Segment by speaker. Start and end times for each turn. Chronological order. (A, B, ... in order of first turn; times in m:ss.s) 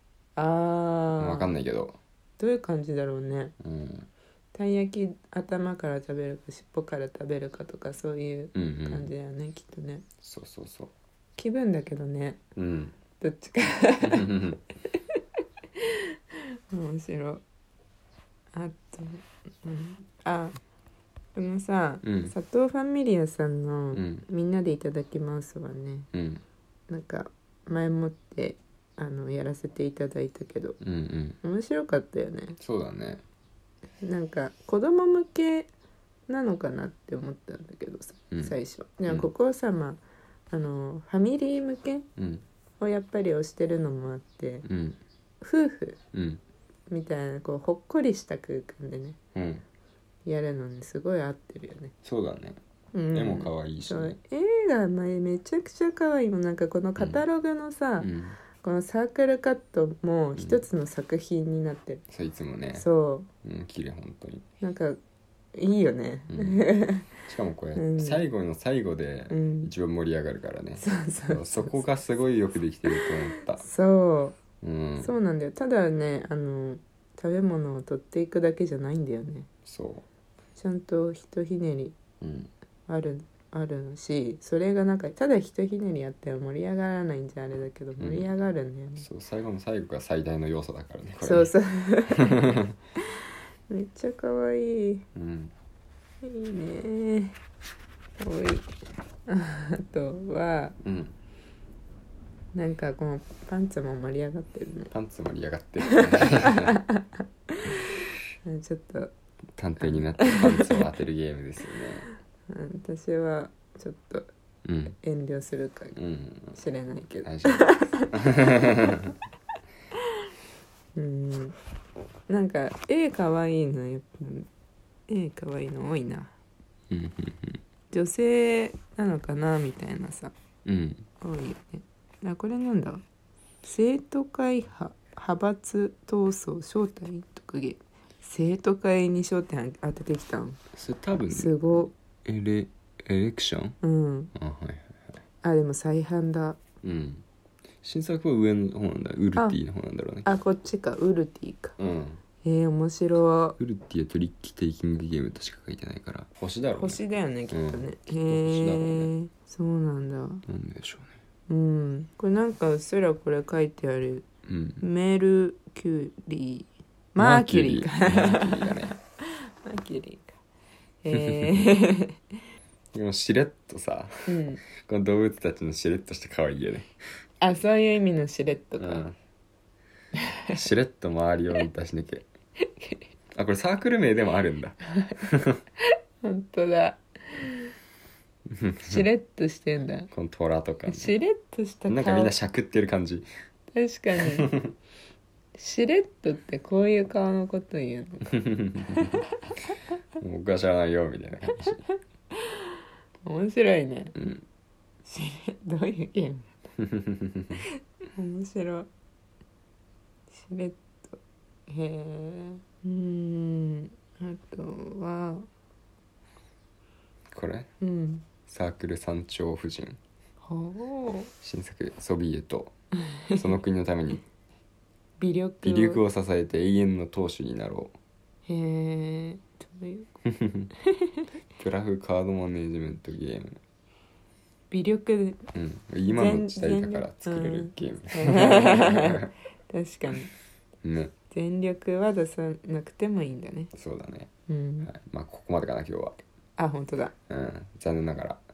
0:00.4-0:01.5 A
0:01.2-0:02.0 B
0:02.4-0:03.5 A
0:03.6-0:04.1 B
0:04.5-0:10.0 A
0:08.5-0:09.1 B
0:10.2-0:10.9 B
0:11.4-0:12.4 A
0:12.6-0:12.9 B
0:13.2-0:14.3 A
0:14.0-0:14.6 B
0:16.7-0:17.4 A
0:18.5-0:20.6 A
0:21.3-0:26.1 A
0:22.0-0:22.3 B
0:23.9-0:24.2 B
0:26.1-0:26.4 B
0:26.9-0:30.8 A
0:30.8-0:31.4 B
0:31.4-0:32.6 A
0:32.6-0:33.2 B
0:34.0-0:35.7 A
0:36.3-0:42.1 A
0:38.3-0:38.6 B
0:42.2-0:42.4 B
0:42.8-0:44.6 A
0:44.6-0:45.0 B
0:45.4-0:46.0 A
0:46.1-0:46.4 B
0:46.9-0:49.2 A
0:49.3-0:49.6 B
0:50.2-0:51.9 A
0:52.0-0:52.6 B
0:52.9-1:02.0 A
0:53.1-0:54.2 B
0:57.0-0:57.2 B
0:58.0-0:58.4 B
1:00.4-1:00.6 B
1:02.1-1:02.8 B
1:02.7-1:03.3 A
1:03.4-1:04.4 B
1:04.6-1:05.0 A
1:05.5-1:07.1 A
1:06.3-1:06.7 B
1:07.2-1:13.6 B
1:07.8-1:08.2 A
1:09.3-1:09.7 A
1:10.8-1:11.8 A
1:12.9-1:14.4 A
1:14.6-1:15.1 B
1:15.0-1:19.5 A
1:19.6-1:20.0 B
1:20.6-1:22.0 A
1:22.2-1:22.5 B
1:22.9-1:29.0 A
1:28.0-1:28.3 B
1:29.0-1:31.5 B
1:31.2-1:32.4 A
1:32.1-1:32.7 B
1:33.7-1:35.0 A
1:35.1-1:35.5 B
1:36.2-1:37.4 A
1:38.2-1:38.7 A
1:39.3-1:40.8 A
1:40.8-1:41.1 B
1:42.5-1:44.9 A
1:44.9-1:46.8 B
1:45.8-1:47.7 A
1:48.4-1:49.1 A
1:49.6-1:52.1 B
1:49.8-1:50.8 A
1:52.5-1:54.3 A
1:54.6-1:55.0 B
1:54.9-1:56.0 A
1:55.9-1:56.6 B
1:56.5-1:58.1 A
1:57.2-1:59.1 B
2:01.0-2:01.5 A
2:02.3-2:04.5 A
2:05.1-2:06.3 A
2:06.9-2:07.6 B
2:07.9-2:10.3 A
2:10.6-2:11.1 B
2:11.2-2:13.0 A
2:13.6-2:20.6 A
2:20.7-2:23.8 B
2:21.3-2:21.9 A
2:23.8-2:24.3 A
2:24.3-2:24.9 B
2:25.4-2:26.6 A
2:26.8-2:27.2 B
2:27.8-2:30.4 B
2:30.2-2:31.8 A
2:31.8-2:32.2 B
2:32.4-2:33.6 A
2:33.6-2:37.0 B
2:36.8-2:40.4 A
2:37.5-2:39.1 B
2:40.4-2:41.1 B
2:41.5-2:44.3 A
2:44.4-2:44.8 B
2:44.8-2:50.4 A
2:47.2-2:48.9 B
2:51.0-2:52.2 A
2:51.1-2:51.5 B
2:52.9-2:56.9 B
2:54.3-2:54.6 A
2:57.4-2:59.0 A
2:58.8-2:59.2 B
3:00.5-3:02.3 B
3:03.3-3:05.6 B
3:06.2-3:07.7 A
3:08.5-3:09.0 B
3:08.8-3:10.1 A
3:10.1-3:11.1 B
3:10.9-3:12.3 A
3:11.9-3:13.3 B
3:13.7-3:14.5 A
3:14.2-3:14.7 B
3:15.5-3:19.2 A
3:18.4-3:19.1 B
3:20.2-3:21.8 B
3:21.9-3:22.6 A
3:23.2-3:24.1 A
3:24.2-3:24.4 B
3:25.0-3:26.5 A
3:26.8-3:27.5 B
3:28.1-3:28.9 A
3:30.3-3:35.5 A
3:37.3-3:37.7 B
3:37.8-3:38.2 A
3:38.4-3:40.0 B
3:40.4-3:41.3 A
3:41.4-3:42.7 B
3:43.3-3:44.2 B
3:45.2-3:46.0 A
3:45.6-3:47.9 B
3:48.5-3:50.2 A
3:50.3-3:50.7 B
3:51.6-3:53.6 B
3:54.7-3:55.4 A
3:55.5-3:59.3 B
3:56.0-4:00.3 A
4:00.8-4:01.1 B
4:01.3-4:03.7 A
4:03.7-4:04.3 B
4:04.5-4:04.9 A
4:04.8-4:06.2 B
4:06.6-4:07.1 A
4:07.3-4:08.4 B